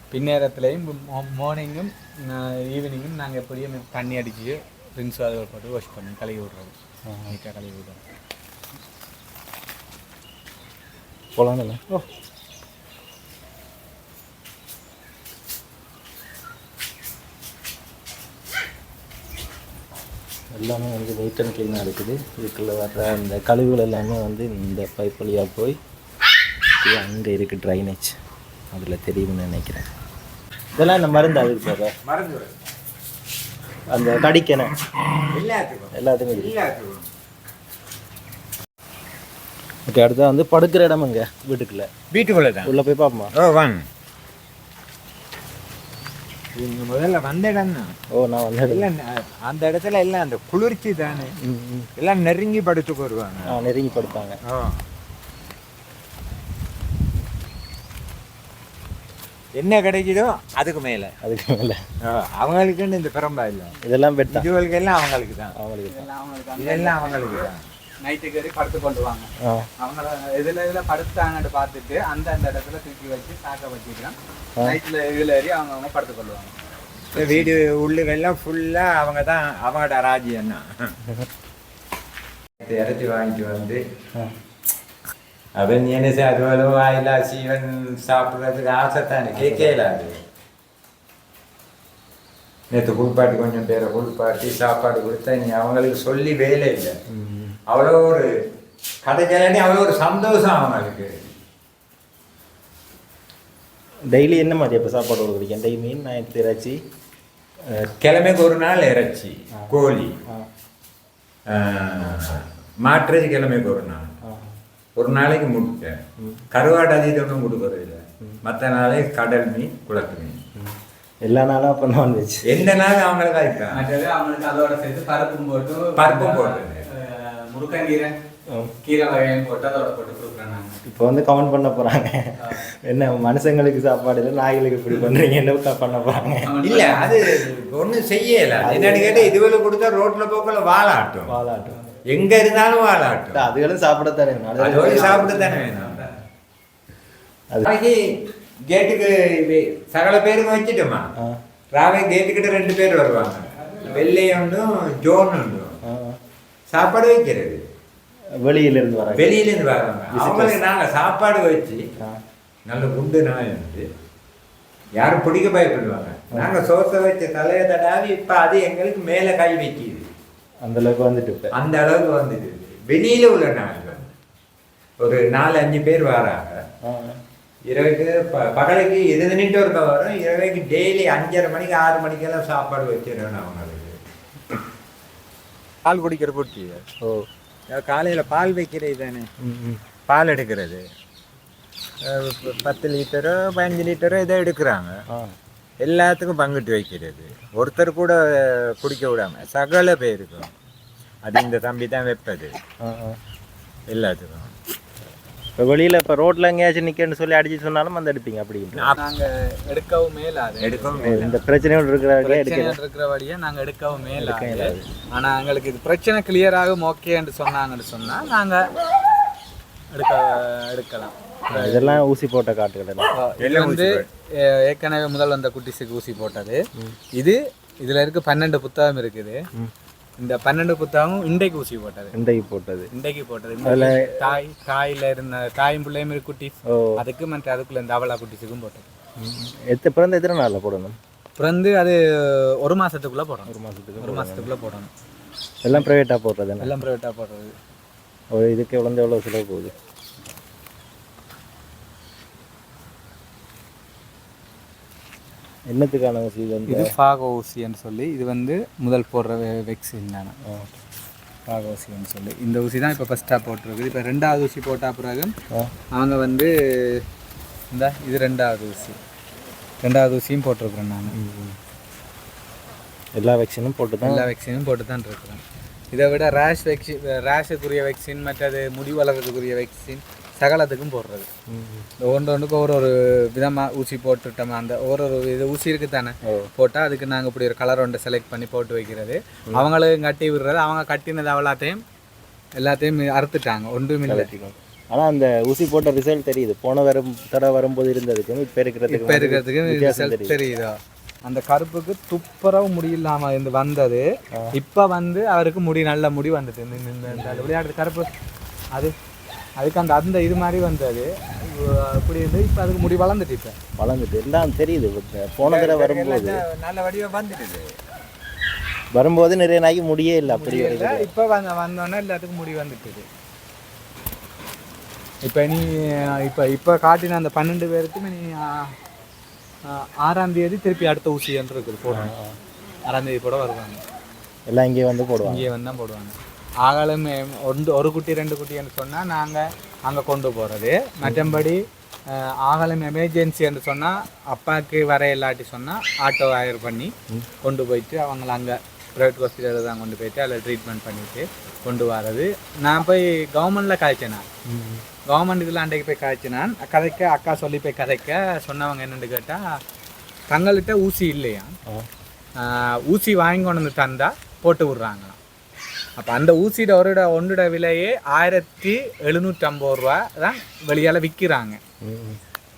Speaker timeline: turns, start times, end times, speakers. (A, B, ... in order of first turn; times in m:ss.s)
0:00.1-0:06.7 A
0:07.1-0:07.4 B
0:07.3-0:08.0 A
0:11.4-0:12.0 B
0:20.5-0:25.8 B
0:26.8-0:28.2 B
0:28.7-0:29.9 B
0:30.8-0:31.9 B
0:32.0-0:32.6 C
0:33.9-0:34.7 B
0:35.3-0:37.1 C
0:36.0-0:36.6 B
0:39.9-0:41.9 B
0:42.1-0:42.7 C
0:42.6-0:43.3 B
0:43.4-0:43.8 C
0:46.6-0:47.9 C
0:48.1-0:48.9 B
0:48.7-0:51.3 C
0:51.4-0:51.9 B
0:52.0-0:53.6 C
0:53.5-0:54.4 B
0:54.5-0:54.8 C
0:59.6-1:01.2 C
1:01.2-1:01.8 B
1:02.0-1:03.8 C
1:03.8-1:04.5 B
1:04.3-1:05.6 C
1:05.6-1:06.1 B
1:05.9-1:07.5 A
1:06.6-1:07.7 C
1:08.0-1:16.5 A
1:09.4-1:09.7 B
1:17.1-1:21.0 C
1:17.2-1:17.5 A
1:22.6-1:23.8 C
1:25.6-1:30.2 C
1:29.3-1:30.0 B
1:32.7-1:37.0 C
1:37.1-1:37.6 B
1:37.7-1:38.3 C
1:39.0-1:41.1 C
1:44.1-1:46.8 B
1:47.8-1:50.2 C
1:49.6-1:50.5 B
1:51.5-1:54.2 C
1:54.2-1:54.6 B
1:55.0-1:56.0 C
1:56.5-2:00.4 C
2:00.6-2:02.4 B
2:02.5-2:03.8 C
2:03.7-2:08.1 A
2:06.0-2:06.9 C
2:08.5-2:08.7 B
2:08.8-2:10.8 A
2:10.8-2:16.5 B
2:16.4-2:17.5 A
2:16.6-2:21.3 C
2:18.6-2:19.3 B
2:21.3-2:21.8 B
2:22.1-2:23.5 C
2:23.3-2:25.6 B
2:24.6-2:26.0 C
2:24.8-2:26.1 A
2:27.6-2:28.0 C
2:28.7-2:31.1 C
2:31.7-2:35.8 C
2:33.7-2:34.0 A
2:35.8-2:36.2 B
2:36.7-2:37.6 C
2:38.4-2:39.4 B
2:39.2-2:41.9 C
2:40.1-2:40.6 B
2:42.7-2:43.9 C
2:45.0-2:50.1 C
2:50.6-2:51.5 B
2:51.5-2:54.1 C
2:55.0-2:56.6 C
2:56.8-2:57.2 B
2:57.7-3:04.0 C
3:05.8-3:06.9 C
3:07.7-3:09.3 C
3:09.4-3:09.8 B
3:10.1-3:10.8 C
3:12.0-3:15.0 C
3:15.8-3:20.5 C
3:21.2-3:22.5 C
3:22.8-3:23.2 B
3:23.9-3:24.6 C
3:25.6-3:29.0 B
3:28.7-3:29.0 C
3:29.0-3:31.4 A
3:30.6-3:31.4 C
3:31.0-3:32.8 B
3:32.2-3:38.6 A
3:34.2-3:34.8 B
3:39.9-3:42.0 A
3:41.5-3:43.1 B
3:43.2-3:46.6 A
3:43.4-3:44.1 C
3:47.2-3:49.4 A
3:50.2-3:52.1 A
3:52.1-3:52.9 B
3:52.9-3:58.9 A
3:53.6-3:54.2 B
3:56.7-3:57.0 B
3:59.2-4:01.0 B
4:01.4-4:04.9 A
4:03.5-4:04.5 B
4:05.6-4:06.8 B
4:06.6-4:07.5 A
4:08.3-4:09.7 B
4:15.7-4:16.9 B
4:16.7-4:20.3 A
4:20.4-4:20.8 B
4:21.5-4:25.3 A
4:26.0-4:27.0 A
4:27.7-4:29.0 A
4:29.8-4:31.2 A
4:31.1-4:31.6 B
4:33.2-4:34.3 B
4:34.0-4:35.4 A
4:35.9-4:41.3 A
4:41.5-4:41.9 B
4:42.0-4:51.8 A
4:46.2-4:46.5 B
4:52.6-4:54.3 A
4:54.1-5:00.4 B
4:58.9-5:04.0 A
5:04.6-5:08.1 A
5:07.1-5:07.5 B
5:09.6-5:13.6 A
5:13.8-5:16.4 B
5:15.5-5:17.7 C
5:18.9-5:21.1 B
5:20.3-5:23.0 A
5:25.2-5:28.7 A
5:29.6-5:32.1 A
5:31.9-5:32.4 B
5:32.9-5:33.8 A
5:34.5-5:35.5 B
5:35.2-5:46.9 A
5:41.0-5:41.5 B
5:47.4-5:54.2 A
5:54.5-5:54.8 B
5:55.1-5:59.4 A
6:00.3-6:01.5 A
6:02.4-6:05.2 A
6:06.0-6:11.6 A
6:11.8-6:12.2 B